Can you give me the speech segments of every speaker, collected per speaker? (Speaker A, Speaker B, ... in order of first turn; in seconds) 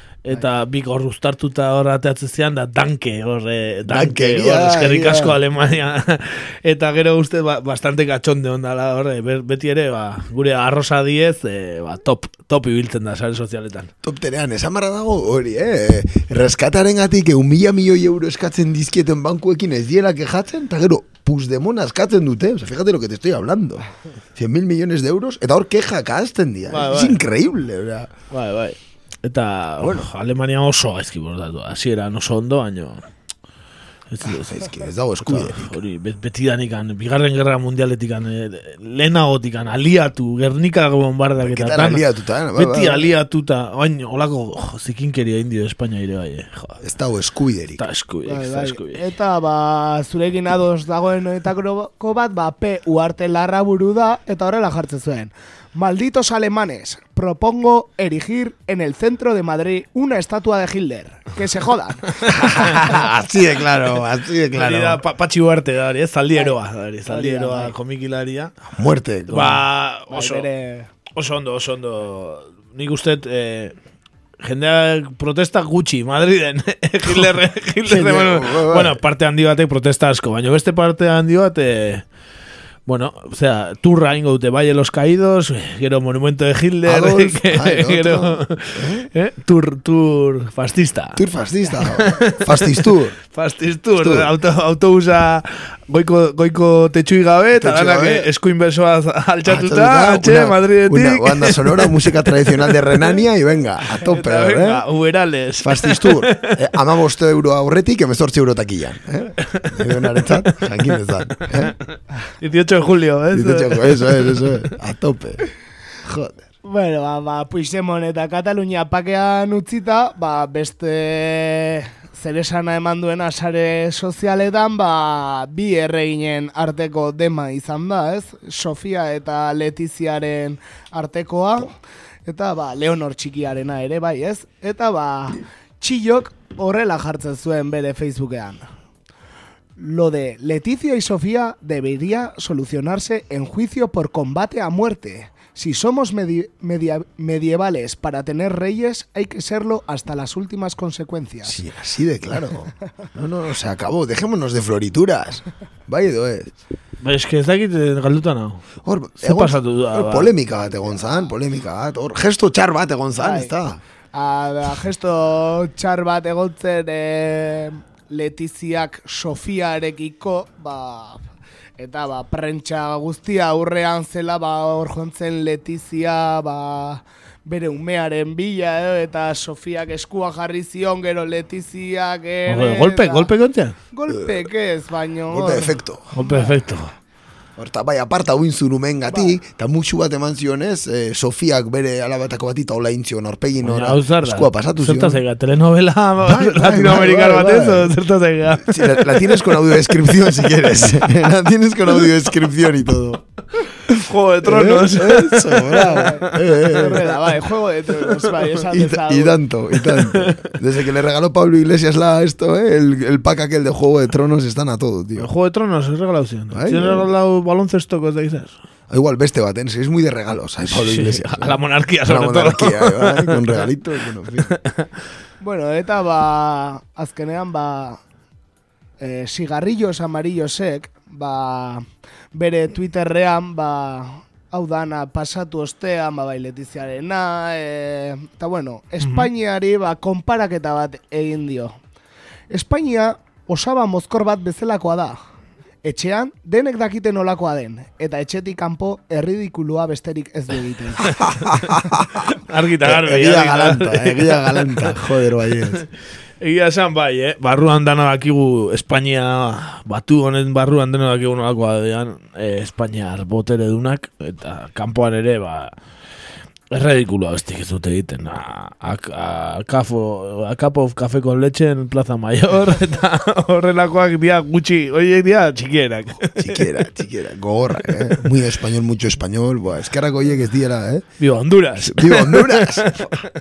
Speaker A: 0.2-13.9, 26.7-27.2, 28.3-33.0, 34.1-34.7, 35.2-42.0, 42.5-46.8, 47.8-49.0, 62.2-62.9, 64.5-68.5, 69.3-70.5, 71.2-73.8, 74.4-82.0, 82.9-91.2, 91.9-103.0, 104.0-106.5, 109.5-111.6, 112.4-114.7, 157.0-158.6, 159.2-160.3, 182.5-183.8, 186.1-186.9, 193.6-199.9, 203.9-206.9, 209.8-210.5, 215.2-218.6, 220.7-223.6, 224.5-224.9, 239.0-239.3, 252.3-254.9, 256.4-265.7, 266.7-276.7, 281.2-283.1
Speaker B: 3.9-5.4, 14.0-28.1, 29.8-30.1, 34.3-35.8, 41.4-43.1, 46.8-47.8, 62.3-65.0, 68.7-69.6, 77.9-79.0, 86.8-89.1, 91.2-93.2, 94.0-94.3, 97.6-98.3, 99.5-104.8, 105.6-111.7, 113.3-115.4, 116.0-116.5, 151.4-156.5, 158.8-163.8, 184.1-184.4, 185.3-186.1, 187.6-195.2, 196.2-197.9, 198.6-203.2, 203.9-207.0, 208.7-215.3, 216.5-217.1, 218.9-224.5, 251.2-252.2, 252.8-255.8, 276.4-281.1, 281.8-283.1
Speaker C: 48.3-62.2, 66.3-67.8, 70.1-70.9, 116.6-138.7, 139.8-151.6, 160.7-161.0, 163.2-163.5, 164.1-171.3, 171.8-183.3, 183.9-186.6, 206.1-209.4, 225.4-228.0, 229.0-241.8, 242.5-245.2, 245.8-251.2